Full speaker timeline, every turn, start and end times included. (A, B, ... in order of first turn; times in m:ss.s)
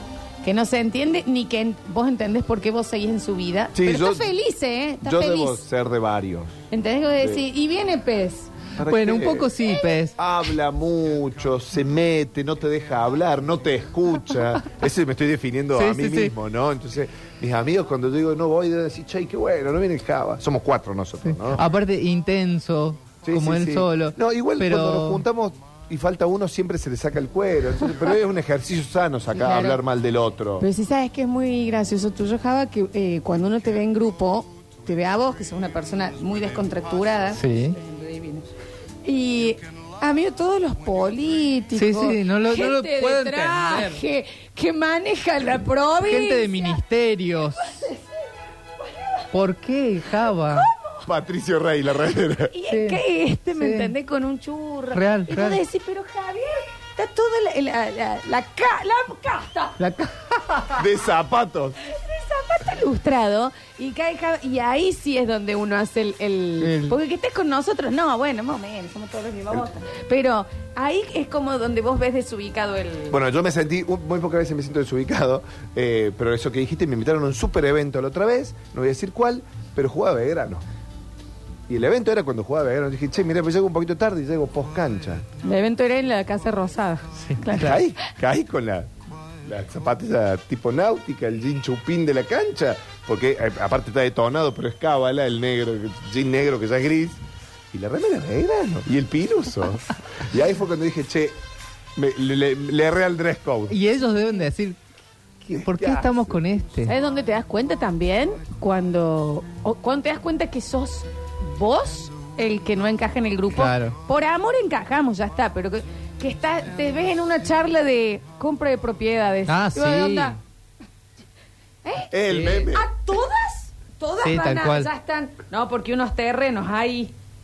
0:00.4-0:05.6 A
0:03.7-0:04.3 B
0:05.0-0:06.6 B
0:06.7-0:08.5 A
0:08.8-0:09.5 B
0:08.8-0:10.2 C
0:10.2-0:21.6 B
0:15.8-0:16.3 C
0:21.5-0:25.2 C
0:23.2-0:30.7 B
0:29.3-0:29.8 A
0:30.6-0:38.4 A
0:37.3-0:37.8 C
0:39.0-0:46.8 A
0:41.8-0:44.0 C
0:46.0-0:47.8 C
0:47.6-0:49.3 A
0:49.3-0:50.7 C
0:50.2-0:51.1 A
0:51.1-0:52.5 B
0:52.5-0:59.8 A
0:52.7-0:53.0 C
0:53.5-0:53.9 C
0:54.9-0:55.6 C
0:59.8-1:00.8 C
1:00.8-1:01.8 B
1:01.8-1:13.2 A
1:06.6-1:07.0 C
1:13.1-1:20.6 B
1:21.7-1:25.2 B
1:25.4-1:27.9 A
1:27.2-1:27.8 C
1:27.5-1:28.9 B
1:29.4-1:37.2 B
1:37.7-1:41.4 B
1:42.0-1:43.8 B
1:43.7-1:44.8 C
1:45.4-1:47.0 C
1:45.5-1:46.2 B
1:46.9-2:00.4 A
1:53.5-1:54.0 C
1:59.5-2:00.4 C
2:01.8-2:07.1 A
2:02.1-2:02.9 B
2:04.2-2:04.9 C